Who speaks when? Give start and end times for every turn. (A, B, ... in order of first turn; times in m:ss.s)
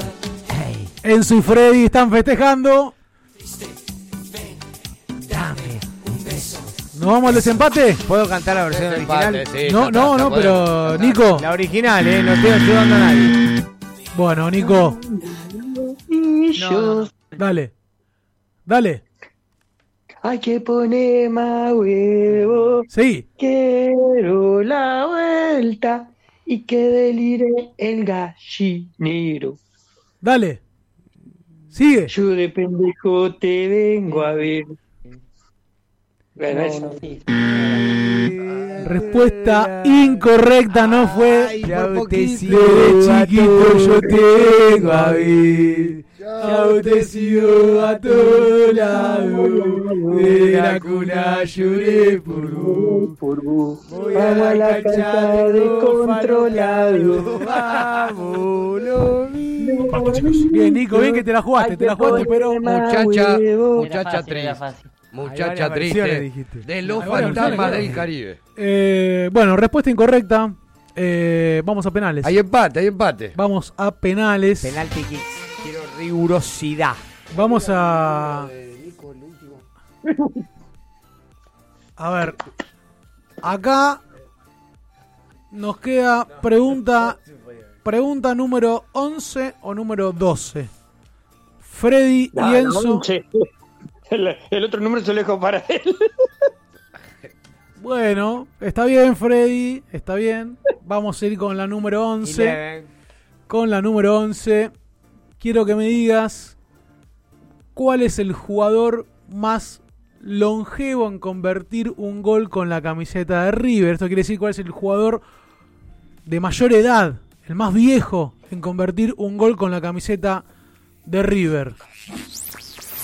0:00.5-0:00.9 A
0:01.0-0:02.9 B
0:05.3-0:06.6 A
0:06.9-0:08.0 B
0:08.0-0:09.4 A
0:08.7-0:11.2 C
0:09.6-0:11.4 B
0:11.4-0:13.4 A
0:14.1-0:15.0 B
0:14.6-0:17.1 D
0:16.6-0:17.3 E
0:17.4-0:17.7 B
0:18.7-0:19.0 B
0:20.2-0:22.8 D
0:22.9-0:23.2 B
0:23.4-0:29.6 D
0:30.2-0:30.6 B
0:31.7-0:32.1 B
0:32.1-0:34.7 D
0:36.4-0:37.0 D
0:36.5-0:37.2 E
0:37.3-0:40.2 A
0:38.8-0:45.4 B
0:40.7-0:42.7 C
0:41.6-0:53.1 A
0:46.2-0:47.0 C
0:46.4-0:53.0 B
0:48.9-0:50.3 D
0:52.7-0:57.3 D
0:53.9-1:00.0 A
0:57.3-0:57.8 C
0:59.6-1:03.9 D
0:59.9-1:03.0 B
1:02.7-1:08.4 C
1:03.8-1:04.9 E
1:05.2-1:08.0 A
1:06.9-1:08.0 B
1:08.6-1:12.4 B
1:12.2-1:13.4 C
1:13.3-1:14.8 B
1:14.6-1:17.0 A
1:17.3-1:18.5 B
1:17.3-1:19.6 C
1:22.0-1:22.4 B
1:23.4-1:24.0 B
1:25.5-1:27.2 B
1:27.8-1:30.7 B
1:31.6-1:33.0 B
1:32.3-1:33.4 D
1:34.1-1:36.0 D
1:37.8-1:42.6 B
1:42.2-1:42.9 A
1:43.5-1:44.7 B
1:45.4-1:46.6 B
1:47.7-1:55.2 B
1:56.2-2:00.4 B
2:01.0-2:01.8 B